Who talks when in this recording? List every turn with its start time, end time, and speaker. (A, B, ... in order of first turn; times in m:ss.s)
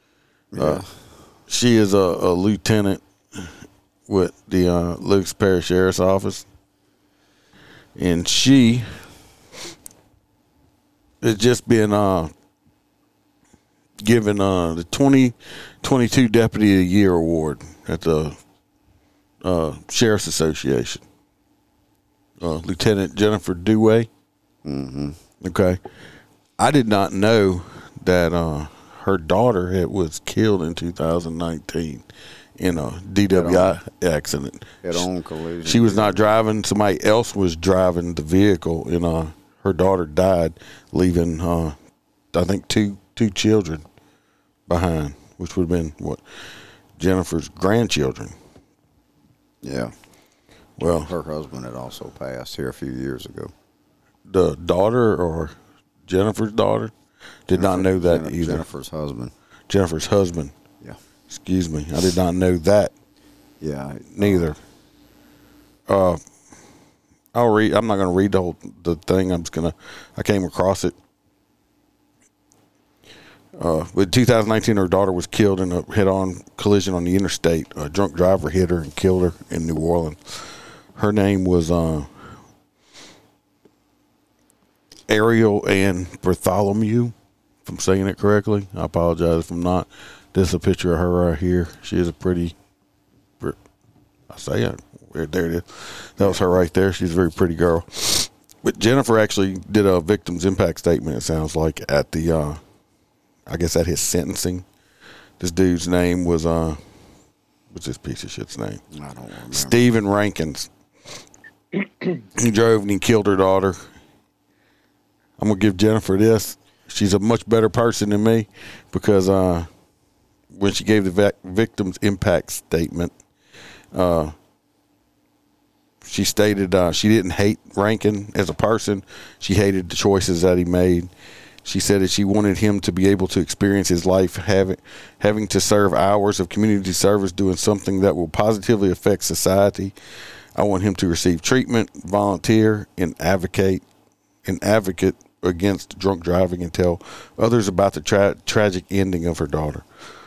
0:00.5-0:00.9 A
0:00.6-0:00.8 B
0:01.5-0:03.5 B
0:04.1-0:06.4 B
0:08.0-0:08.8 B
0:11.2-0:12.3 B
0:14.0-0:18.4 B
0:19.4-0:21.0 B
0:22.4-0:24.1 B
0:24.6-0:25.2 A
0:25.4-0:25.8 B
0:26.6-0:32.0 B
0:32.6-0:35.1 B
0:33.3-0:33.7 A
0:34.8-0:36.2 A
0:35.6-0:41.7 B
0:42.3-0:43.8 B
0:44.7-0:46.2 B
0:47.0-0:48.3 B
0:49.6-0:49.9 A
0:50.8-0:51.1 B
0:50.9-0:53.5 A
0:54.3-0:55.5 B
0:56.0-0:56.9 B
0:57.5-0:58.6 B
0:57.5-0:59.3 A
0:59.7-1:00.5 B
1:01.3-1:02.9 B
1:03.6-1:04.5 A
1:04.2-1:04.6 B
1:05.9-1:06.2 B
1:07.3-1:11.0 B
1:13.6-1:22.1 B
1:25.1-1:27.1 B
1:27.6-1:32.5 B
1:34.3-1:42.6 B
1:43.5-1:44.6 B
1:45.4-1:46.8 B
1:47.7-1:48.8 B
1:48.9-1:49.8 A
1:49.5-1:50.7 B
1:52.2-1:53.8 B
1:55.4-1:59.7 B
2:00.5-2:03.1 B
2:03.9-2:04.3 B
2:06.0-2:11.1 B
2:11.6-2:19.9 B
2:20.6-2:23.8 B
2:24.4-2:29.8 B